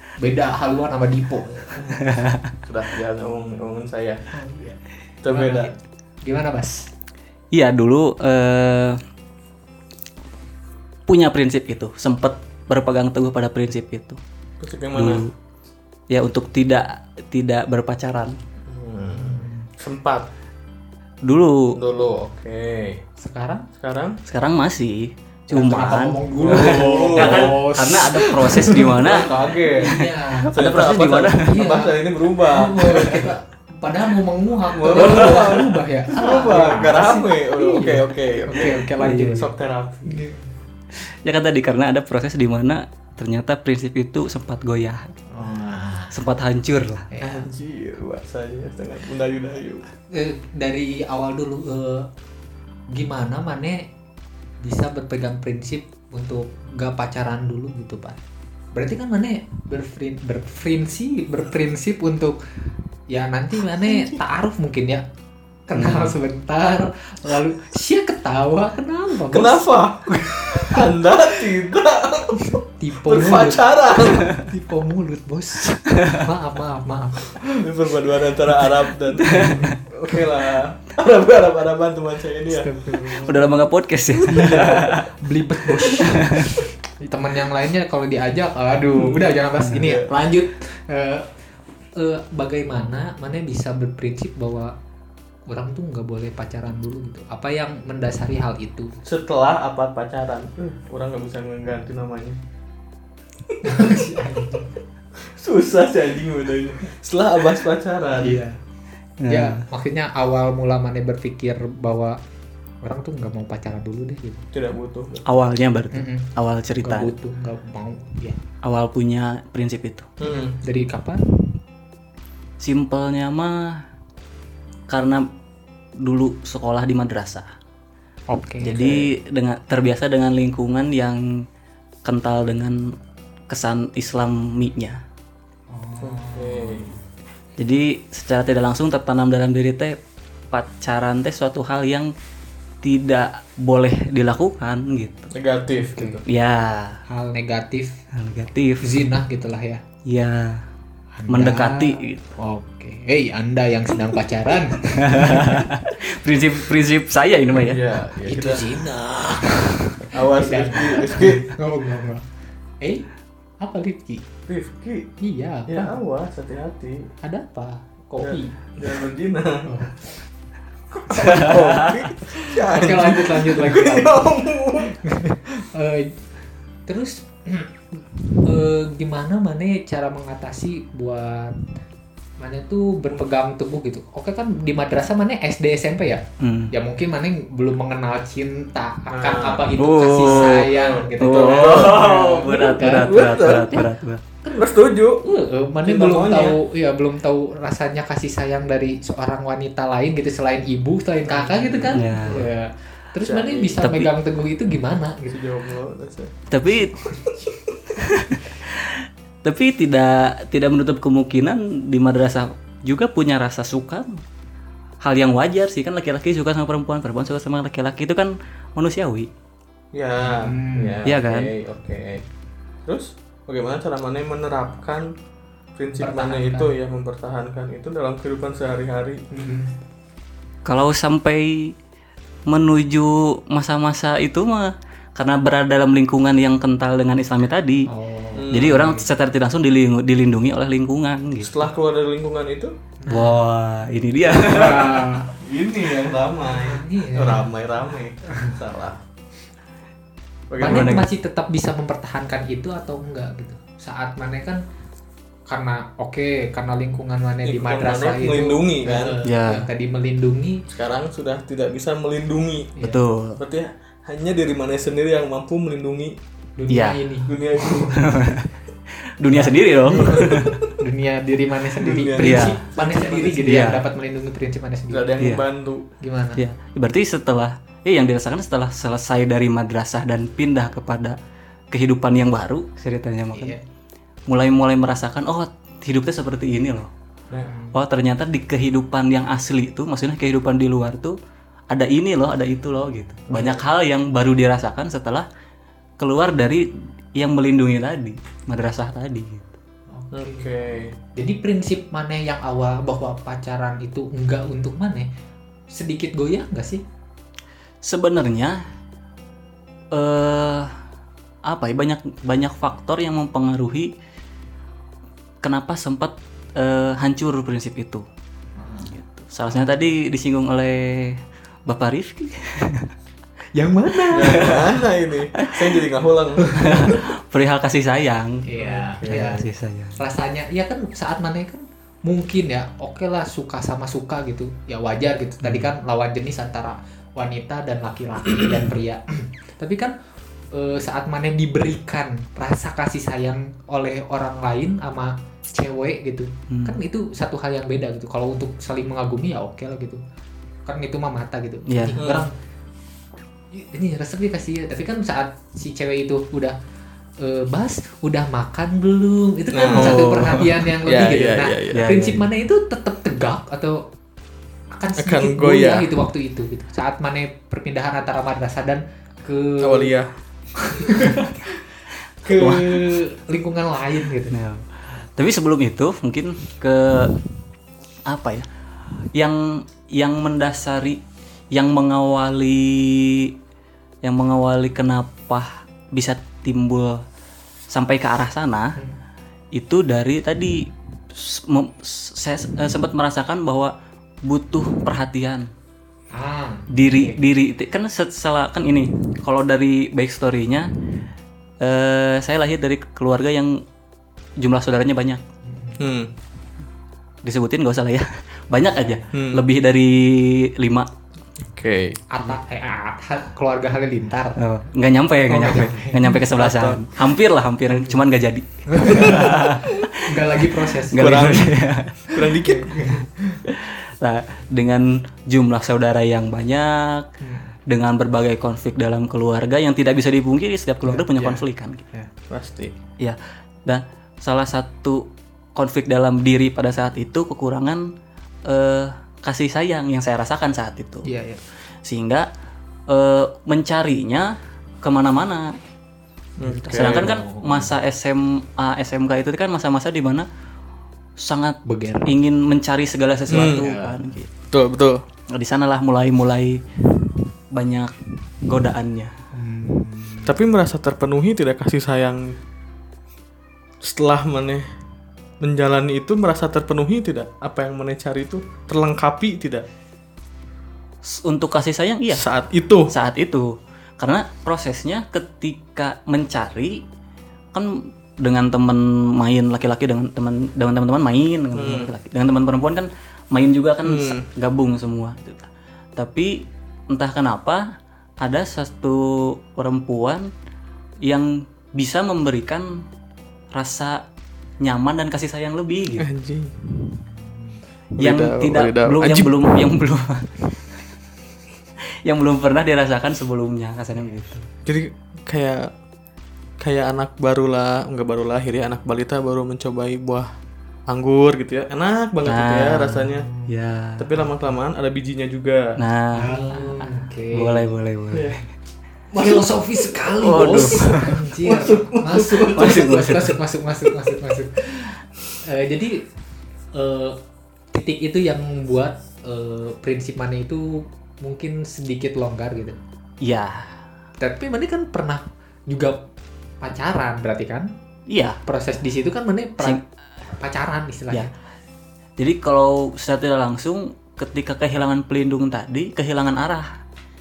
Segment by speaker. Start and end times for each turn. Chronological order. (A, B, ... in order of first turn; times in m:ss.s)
0:00.2-0:01.9 A
0:02.0-0:02.6 B
0:02.7-0:04.2 C
0:04.3-0:06.9 A
0:05.2-0:05.7 C
0:07.5-0:09.0 B
0:11.1-0:14.2 B
0:14.6-0:15.3 C
0:15.0-0:15.3 B
0:16.1-0:18.4 B
0:18.7-0:20.3 C
0:19.1-0:19.6 A
0:21.2-0:21.8 B
0:21.8-0:23.0 C
0:23.2-0:23.7 A
0:23.8-0:24.2 C
0:24.3-0:29.3 B
0:25.5-0:30.5 A
0:26.4-0:27.6 C
0:28.8-0:30.0 C
0:29.8-0:31.5 B
0:30.5-0:33.4 C
0:31.4-0:39.5 A
0:34.7-0:40.2 C
0:35.0-0:35.3 B
0:39.0-0:39.4 B
0:40.1-0:40.5 A
0:41.0-0:45.2 B
0:45.3-0:46.2 A
0:46.1-0:47.1 B
0:47.1-0:47.5 A
0:47.2-0:49.9 C
0:50.1-0:52.1 A
0:52.9-0:53.9 A
0:54.6-0:58.2 A
0:58.7-1:02.4 A
1:03.1-1:05.0 A
1:03.9-1:04.2 C
1:05.7-1:11.2 A
1:05.8-1:06.1 B
1:09.3-1:14.4 C
1:12.4-1:13.7 A
1:14.2-1:17.6 A
1:16.0-1:16.3 B
1:17.4-1:22.8 C
1:18.5-1:20.3 A
1:19.2-1:19.8 B
1:22.5-1:23.6 A
1:23.1-1:25.1 B
1:24.2-1:25.0 C
1:25.0-1:31.4 A
1:25.9-1:26.6 B
1:29.8-1:30.1 C
1:32.0-1:34.8 A
1:35.5-1:39.0 A
1:39.0-1:42.4 C
1:43.6-1:44.7 A
1:45.3-1:48.4 C
1:48.2-1:48.6 A
1:49.2-1:49.6 B
1:49.3-1:52.2 A
1:52.8-1:54.4 A
1:54.5-1:55.2 C
1:55.3-1:57.1 B
1:55.9-1:58.4 A
1:58.6-2:00.1 B
2:00.2-2:00.6 C
2:00.2-2:01.3 A
2:02.6-2:03.8 B
2:04.9-2:05.2 B
2:06.0-2:07.5 B
2:08.3-2:09.1 A
2:08.6-2:11.4 B
2:12.0-2:12.9 B
2:13.5-2:15.0 B
2:15.7-2:16.9 A
2:16.0-2:16.9 C
2:17.6-2:20.0 B
2:20.5-2:22.1 B
2:22.8-2:25.3 B
2:25.3-2:26.2 C
2:25.8-2:26.2 A
2:26.3-2:27.0 B
2:27.1-2:28.0 A
2:28.1-2:29.0 B
2:28.8-2:29.8 A
2:30.1-2:30.6 B
2:31.2-2:35.7 A
2:31.3-2:32.4 B
2:34.8-2:37.8 B
2:37.6-2:38.8 C
2:38.3-2:42.3 A
2:40.1-2:41.5 C
2:42.8-2:43.1 A
2:43.6-2:44.3 A
2:44.5-2:45.1 C
2:45.2-2:46.0 A
2:45.7-2:47.1 C
2:47.2-2:48.6 A
2:48.2-2:49.8 C
2:49.7-2:50.0 A
2:51.0-2:54.9 C
2:51.1-2:51.5 A
2:51.2-2:52.0 B
2:52.3-2:54.3 A
2:54.8-2:56.2 A
2:56.9-2:57.7 A
2:58.4-3:01.6 A
3:02.4-3:13.9 A
3:06.4-3:06.7 B
3:09.1-3:13.8 C
3:09.8-3:14.2 B
3:14.4-3:25.4 A
3:14.5-3:15.2 C
3:15.8-3:16.6 C
3:21.3-3:22.4 C
3:21.9-3:22.4 B
3:23.2-3:23.8 C
3:23.8-3:24.1 B
3:25.3-3:26.3 C
3:26.5-3:26.9 B
3:27.0-3:27.4 A
3:27.9-3:34.2 B
3:35.0-3:39.3 B
3:39.9-3:42.2 C
3:40.2-3:41.0 A
3:41.1-3:41.5 B
3:42.9-3:45.1 C
3:45.8-3:49.2 C
3:46.0-3:46.7 A
3:49.3-3:49.8 A
3:50.6-3:51.8 B
3:52.5-3:57.9 B
3:57.9-3:59.1 A
3:58.4-3:58.9 C
3:58.5-4:01.6 B
4:01.4-4:02.7 C
4:03.0-4:03.5 A
4:03.1-4:05.0 B
4:04.3-4:05.3 A
4:05.4-4:09.0 C
4:06.4-4:07.5 A
4:08.3-4:08.6 A
4:10.5-4:11.0 C
4:10.6-4:14.6 A
4:10.6-4:11.0 B
4:15.5-4:20.6 A
4:17.4-4:19.2 C
4:19.2-4:19.7 B
4:20.7-4:22.8 C
4:22.8-4:23.0 A
4:22.8-4:23.4 B
4:23.4-4:26.2 C
4:26.6-4:28.1 A
4:26.7-4:27.0 B
4:27.3-4:28.0 C
4:27.9-4:28.5 B
4:29.2-4:30.6 B
4:29.3-4:35.2 A
4:29.8-4:30.8 C
4:31.8-4:33.6 C
4:32.2-4:32.6 B
4:33.4-4:33.8 B
4:34.9-4:35.9 C
4:35.2-4:35.4 B
4:36.0-4:36.4 A
4:36.4-4:41.2 B
4:41.7-4:43.6 B
4:43.4-4:43.6 A
4:44.3-4:46.9 B
4:47.4-4:47.8 A
4:47.7-4:51.2 B
4:51.7-4:55.3 B
4:53.3-4:53.6 C
4:56.0-4:59.6 B
4:59.9-5:00.5 A
5:00.1-5:00.9 C
5:01.2-5:05.1 A
5:05.7-5:06.8 A
5:07.8-5:08.6 B
5:09.9-5:10.7 B
5:11.5-5:13.9 B
5:15.4-5:18.0 B
5:18.6-5:18.9 A
5:18.8-5:22.9 B
5:19.5-5:19.9 A
5:23.6-5:24.8 A
5:24.1-5:26.8 C
5:24.2-5:24.6 B
5:26.4-5:27.0 A
5:26.6-5:28.4 B
5:28.5-5:40.0 A
5:28.6-5:29.3 C
5:29.0-5:30.0 B
5:40.5-5:50.0 A
5:46.5-5:46.8 B
5:50.7-5:52.3 A
5:51.7-5:52.0 B
5:52.0-5:52.3 C
5:53.5-5:56.6 A
5:57.2-6:03.8 A
5:59.5-6:01.9 C
5:59.7-6:00.5 B
6:01.7-6:02.3 B
6:04.7-6:09.9 A
6:05.0-6:05.9 C
6:09.6-6:10.1 C
6:10.6-6:11.6 A
6:12.2-6:14.4 A
6:12.3-6:12.9 B
6:14.3-6:17.2 B
6:18.1-6:18.5 B
6:19.1-6:23.3 B
6:24.0-6:27.0 B
6:27.7-6:28.8 B
6:29.6-6:33.7 B
6:34.2-6:35.5 B
6:36.1-6:37.2 A
6:36.7-6:40.7 B
6:41.6-6:43.6 B
6:44.4-6:45.2 B
6:45.4-6:45.8 A
6:45.8-6:46.1 C
6:47.2-6:50.9 B
6:49.1-6:49.4 C
6:51.4-6:52.0 C
6:52.1-6:54.4 A
6:54.4-7:02.0 B
6:55.3-6:56.2 A
6:56.3-6:57.0 C
6:57.7-6:58.0 A
6:58.7-7:01.4 A
7:01.0-7:01.6 C
7:02.1-7:03.0 C
7:02.1-7:03.4 A
7:03.4-7:07.1 B
7:07.2-7:07.5 A
7:07.7-7:11.8 B
7:10.8-7:12.1 A
7:12.3-7:12.8 C
7:13.0-7:17.9 B
7:18.5-7:21.1 B
7:21.0-7:21.4 A
7:21.8-7:22.3 B
7:22.9-7:24.3 B
7:24.8-7:25.5 B
7:26.4-7:27.1 C
7:26.4-7:27.8 A
7:26.7-7:30.3 B
7:31.2-7:34.3 B
7:31.6-7:32.1 A
7:33.3-7:33.8 C
7:33.3-7:34.2 A
7:34.5-7:35.0 C
7:35.3-7:36.6 B
7:37.5-7:37.9 B
7:38.5-7:39.1 B
7:39.3-7:40.4 A
7:40.3-7:42.4 C
7:43.8-7:44.7 C
7:45.4-7:49.6 C
7:51.0-7:52.3 B
7:52.1-7:52.9 C
7:52.9-7:56.8 B
7:57.5-8:07.7 B
8:01.6-8:01.9 C
8:03.8-8:04.3 C
8:08.2-8:10.3 B
8:11.0-8:12.8 B
8:13.5-8:14.0 B
8:14.6-8:16.1 B
8:16.0-8:16.6 C
8:17.0-8:17.6 A
8:18.0-8:19.6 C
8:18.0-8:20.4 B
8:22.0-8:24.4 B
8:24.0-8:24.3 A
8:24.7-8:25.7 C
8:26.6-8:30.3 C
8:30.9-8:33.3 C
8:32.2-8:34.0 B
8:33.0-8:33.5 A
8:34.0-8:35.8 C
8:35.8-8:38.4 B
8:36.2-8:37.7 A
8:38.1-8:38.4 C
8:39.1-8:40.7 C
8:39.2-8:46.0 A
8:40.2-8:41.2 B
8:41.4-8:42.9 C
8:42.5-8:43.4 B
8:46.7-8:47.2 A
8:47.7-8:52.8 A
8:53.2-8:53.7 B
8:54.2-8:56.0 A
8:56.6-8:57.7 A
8:58.1-8:58.4 B
8:58.5-9:01.3 A
9:02.2-9:06.7 B